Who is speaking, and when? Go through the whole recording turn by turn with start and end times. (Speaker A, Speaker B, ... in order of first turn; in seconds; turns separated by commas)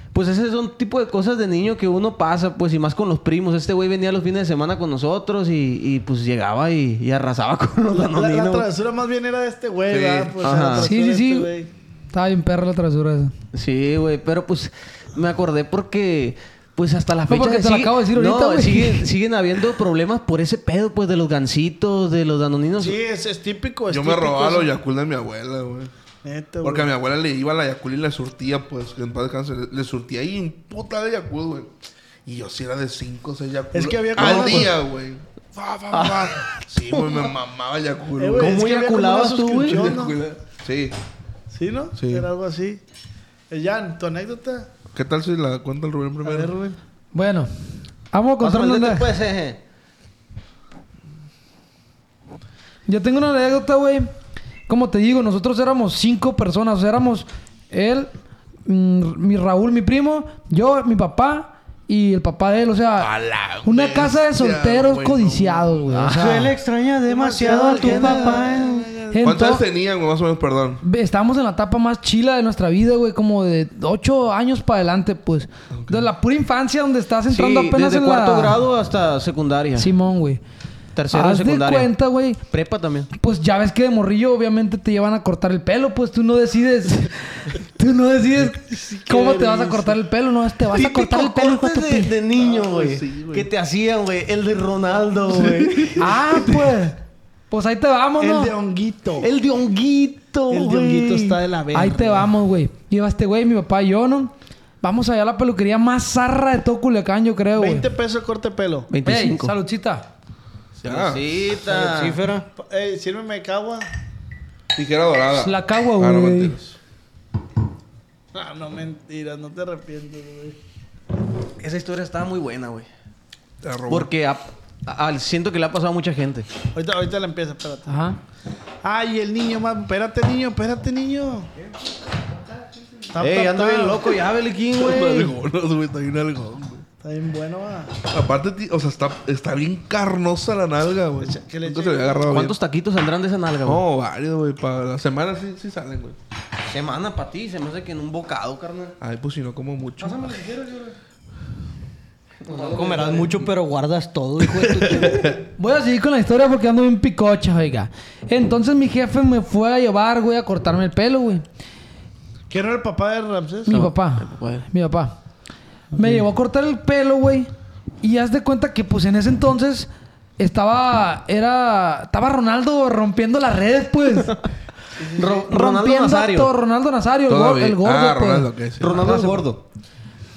Speaker A: 0.1-8.7, Speaker B: 8.0-11.7, Speaker C: 9.9-10.5, Speaker A: 10.4-10.9, Speaker D: 10.8-11.5, Speaker D: 12.1-13.3, Speaker A: 13.5-23.0, Speaker D: 17.3-19.1, Speaker B: 22.8-24.7, Speaker C: 23.9-25.9, Speaker B: 26.2-26.9, Speaker C: 26.6-31.7, Speaker C: 32.3-38.6, Speaker B: 33.7-34.8, Speaker A: 35.9-36.5, Speaker B: 38.2-40.2, Speaker A: 38.4-40.0, Speaker C: 39.7-41.0, Speaker B: 41.5-42.8, Speaker C: 42.0-42.3, Speaker B: 43.5-44.7, Speaker C: 44.9-46.5, Speaker B: 46.2-46.8, Speaker D: 47.1-47.5, Speaker D: 48.1-49.1, Speaker A: 48.4-49.6, Speaker D: 52.9-54.1, Speaker D: 54.7-58.1, Speaker D: 58.7-63.1, Speaker C: 63.0-66.0, Speaker D: 63.6-66.5, Speaker A: 65.9-66.5, Speaker E: 66.1-68.8, Speaker B: 67.1-69.4, Speaker D: 67.5-68.5, Speaker D: 69.1-69.7, Speaker C: 69.2-70.8, Speaker D: 70.8-78.6, Speaker A: 77.3-79.9, Speaker D: 79.8-80.4, Speaker A: 81.0-81.9, Speaker D: 81.1-82.4, Speaker A: 82.5-83.1, Speaker D: 83.2-92.1, Speaker B: 89.1-89.8, Speaker A: 90.7-96.7, Speaker C: 92.4-93.5, Speaker D: 96.0-97.0, Speaker D: 97.5-98.5, Speaker B: 98.2-99.3, Speaker A: 99.2-101.4, Speaker B: 100.5-102.3, Speaker D: 101.7-107.9, Speaker B: 107.6-108.9, Speaker A: 108.9-109.5, Speaker D: 109.0-110.1, Speaker A: 110.8-112.2, Speaker C: 110.8-111.2, Speaker E: 111.7-112.5, Speaker B: 112.6-113.9, Speaker C: 114.8-116.7, Speaker D: 115.3-116.6, Speaker B: 118.3-120.6, Speaker A: 121.6-122.9, Speaker C: 123.6-124.1, Speaker A: 123.9-126.5, Speaker B: 126.8-128.0, Speaker D: 127.9-128.2, Speaker B: 128.8-131.5, Speaker B: 133.1-134.0, Speaker A: 133.2-135.3, Speaker C: 134.8-136.8, Speaker B: 137.0-137.9, Speaker C: 138.1-142.6, Speaker B: 141.2-142.2, Speaker A: 142.3-143.8, Speaker C: 143.7-146.2, Speaker A: 146.7-148.9, Speaker C: 149.0-150.3, Speaker A: 150.3-150.9, Speaker A: 152.5-153.2, Speaker E: 152.6-155.3, Speaker D: 155.6-161.4, Speaker B: 162.5-163.7, Speaker D: 163.7-165.2, Speaker A: 163.7-164.7, Speaker D: 166.0-167.5, Speaker D: 168.0-174.4, Speaker B: 175.0-175.5, Speaker A: 175.2-176.5, Speaker D: 175.5-178.5, Speaker C: 177.3-179.0, Speaker A: 178.8-179.6